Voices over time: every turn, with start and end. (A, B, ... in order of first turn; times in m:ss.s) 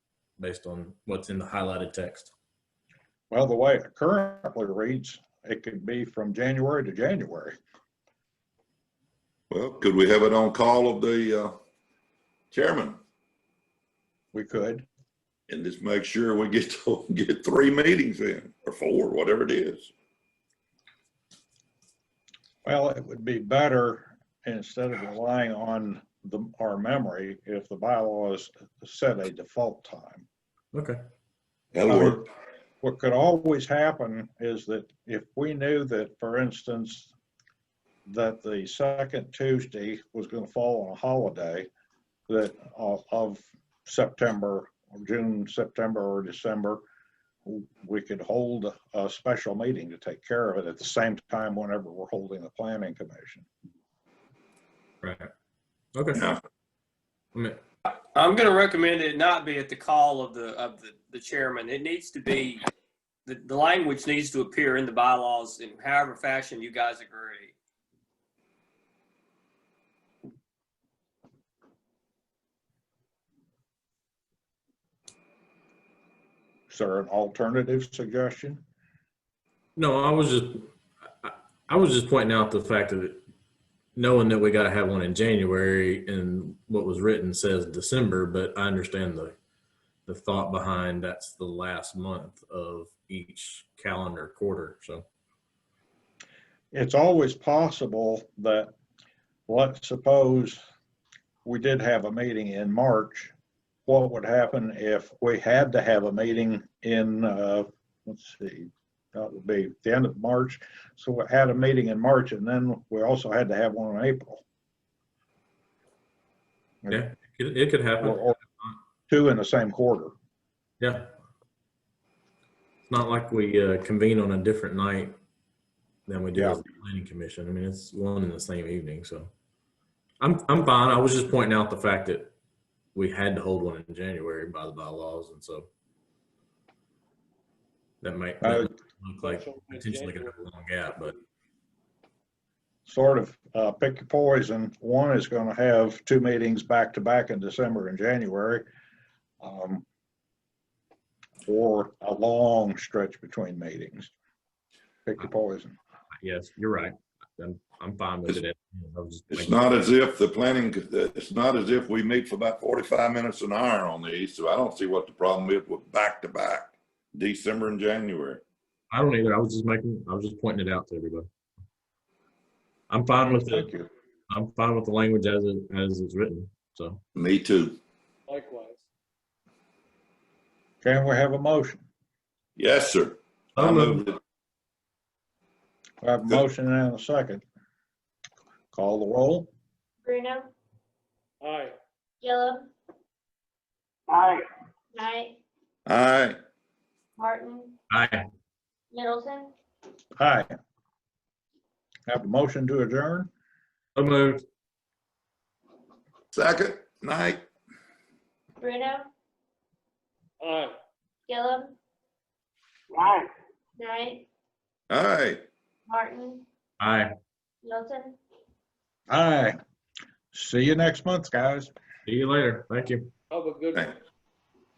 0:00.4-0:02.3 A
0:03.3-0:07.6 B
0:09.5-0:11.6 C
0:12.5-0:13.0 C
0:14.3-0:14.8 B
0:15.5-0:19.9 C
0:22.6-0:30.3 B
0:30.7-0:31.0 A
0:31.7-0:32.2 C
0:31.9-0:32.2 B
0:32.8-0:37.1 B
0:38.1-0:41.7 B
0:42.3-0:46.8 B
0:47.4-0:53.5 B
0:55.0-0:55.3 A
0:56.0-0:56.2 A
0:57.3-0:57.6 A
0:57.9-1:02.6 D
1:03.3-1:07.6 D
1:16.7-1:18.6 B
1:19.8-1:20.7 A
1:21.2-1:23.2 A
1:24.0-1:29.4 A
1:30.1-1:35.0 A
1:36.7-1:38.8 B
1:39.5-1:40.6 B
1:41.4-1:43.3 B
1:43.9-1:54.4 B
1:56.9-1:58.8 A
1:58.0-1:58.4 B
1:59.1-2:00.1 B
2:00.8-2:01.1 A
2:02.9-2:05.2 A
2:06.1-2:09.3 A
2:06.4-2:06.6 B
2:10.2-2:12.3 A
2:13.0-2:15.7 A
2:18.0-2:21.2 A
2:18.4-2:18.7 B
2:19.3-2:20.2 E
2:22.9-2:28.7 B
2:29.4-2:29.9 B
2:31.4-2:34.1 B
2:35.1-2:35.8 B
2:36.2-2:39.6 A
2:39.3-2:48.4 C
2:48.9-2:51.3 A
2:52.9-2:53.7 A
2:53.5-2:53.9 B
2:54.3-2:57.0 A
2:57.2-2:57.8 C
2:58.3-2:58.8 E
3:00.8-3:01.8 B
3:02.6-3:04.2 C
3:03.6-3:04.0 A
3:06.0-3:07.4 B
3:08.7-3:09.5 B
3:10.0-3:10.5 F
3:11.4-3:11.7 E
3:12.2-3:12.7 F
3:14.9-3:15.4 F
3:15.9-3:16.4 C
3:17.2-3:17.8 F
3:17.9-3:18.2 A
3:18.9-3:19.5 F
3:20.2-3:20.5 B
3:22.1-3:23.3 B
3:24.0-3:24.4 A
3:26.3-3:27.5 C
3:28.6-3:29.1 F
3:30.4-3:30.7 E
3:31.3-3:31.8 F
3:33.8-3:34.3 F
3:34.9-3:35.4 C
3:35.9-3:36.4 F
3:36.8-3:37.1 A
3:37.6-3:38.2 F
3:39.1-3:39.6 B
3:40.3-3:41.7 B
3:42.1-3:43.1 A
3:43.3-3:43.9 E